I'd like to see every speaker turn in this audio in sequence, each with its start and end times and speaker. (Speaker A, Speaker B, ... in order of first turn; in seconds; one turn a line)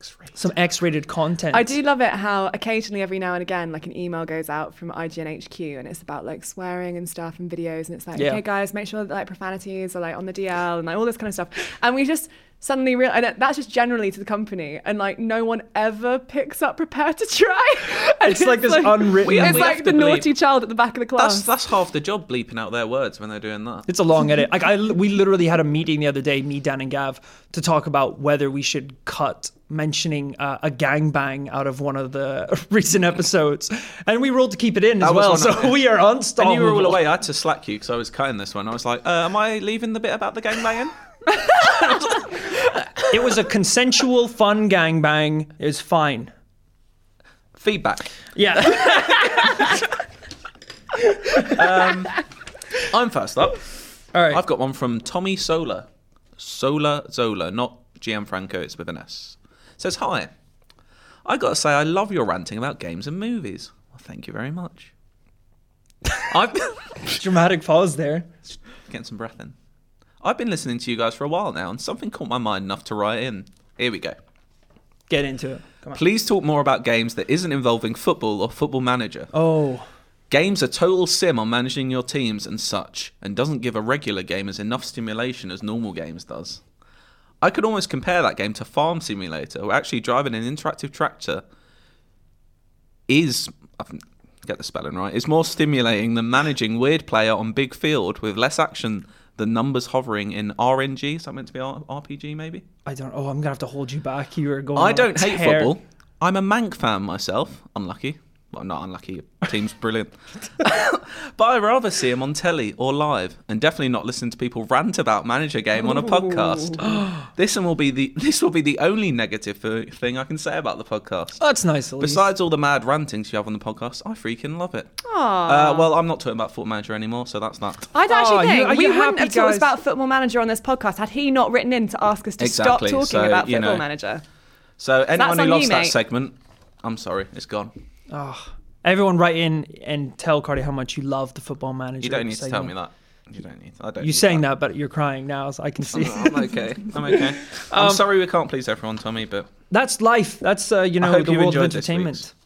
Speaker A: 0.3-1.7
Speaker B: 1.5-21.5
Speaker A: 8.1-8.4
Speaker A: 18.2-19.8
Speaker C: 19.2-20.3
Speaker C: 21.2-23.9
Speaker A: 23.9-37.0
Speaker C: 35.0-40.9
Speaker C: 41.8-42.2
Speaker A: 43.1-46.3
Speaker C: 47.6-48.1
Speaker A: 48.3-49.7
Speaker A: 51.3-51.6
Speaker C: 51.4-52.2
Speaker C: 52.8-53.6
Speaker A: 54.1-54.4
Speaker C: 54.3-55.9
Speaker C: 56.4-60.3
Speaker C: 61.2-64.9
Speaker C: 66.3-67.2
Speaker A: 67.1-68.3
Speaker C: 68.9-69.5
Speaker C: 70.2-74.2
Speaker A: 75.1-76.0
Speaker C: 75.9-79.3
Speaker A: 79.3-79.9
Speaker C: 80.3-86.6
Speaker C: 87.4-91.4
Speaker C: 93.1-102.6
Speaker A: 102.8-105.8
Speaker C: 104.7-121.4
Speaker A: 121.4-122.3
Speaker C: 122.0-127.9
Speaker B: 125.0-125.9
Speaker B: 127.9-134.2
Speaker A: 128.1-129.7
Speaker C: 132.4-133.9
Speaker C: 134.8-137.7
Speaker B: 135.2-135.9
Speaker A: 138.1-142.7
Speaker C: 142.0-144.4
Speaker A: 144.0-147.2
Speaker C: 145.9-149.5
Speaker A: 147.7-148.0
Speaker A: 149.7-152.3
Speaker C: 151.0-152.2